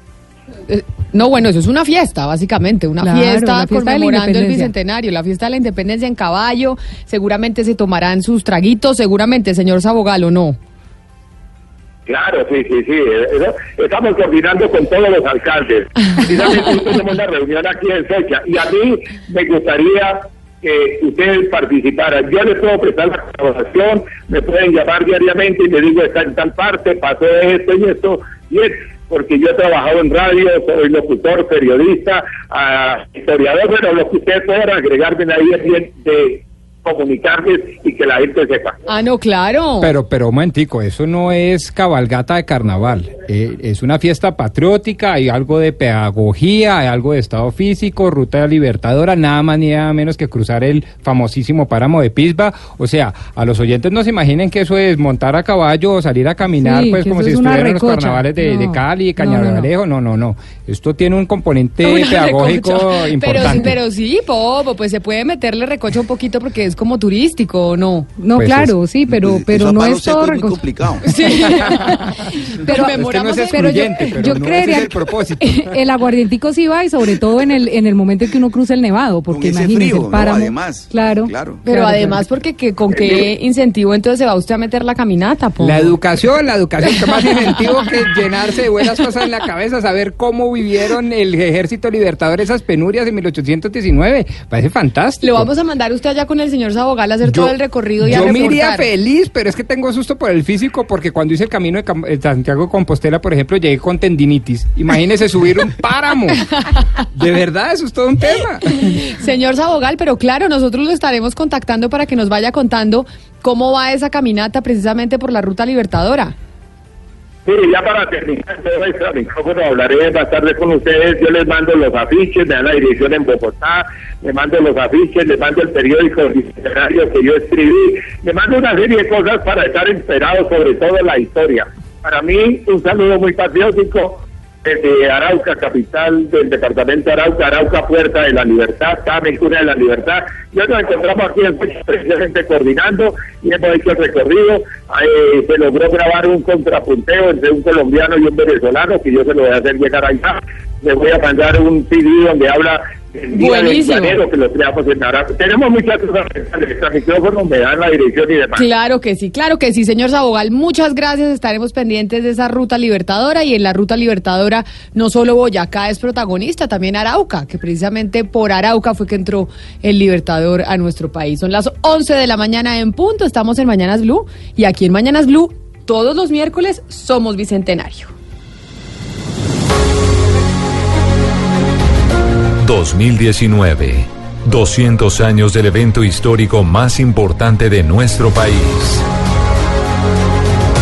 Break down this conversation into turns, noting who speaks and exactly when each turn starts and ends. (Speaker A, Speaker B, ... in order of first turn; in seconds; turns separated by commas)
Speaker A: 0.7-10.6, Speaker B: 3.0-4.7, Speaker C: 12.1-38.8, Speaker A: 38.9-39.9, Speaker D: 39.8-63.8, Speaker B: 56.6-59.7, Speaker A: 61.8-68.1, Speaker B: 68.2-70.5, Speaker D: 68.3-68.7, Speaker E: 69.1-71.3, Speaker A: 71.0-74.3, Speaker B: 71.5-72.0, Speaker D: 72.7-75.8, Speaker B: 73.5-75.0, Speaker B: 75.5-82.2, Speaker E: 79.3-81.6, Speaker A: 81.7-86.0, Speaker E: 82.9-83.3, Speaker D: 85.6-95.5, Speaker A: 95.2-98.9, Speaker D: 97.2-108.8, Speaker A: 108.9-116.3, Speaker C: 117.5-158.7, Speaker A: 153.3-154.2, Speaker A: 158.6-178.1, Speaker F: 182.6-189.1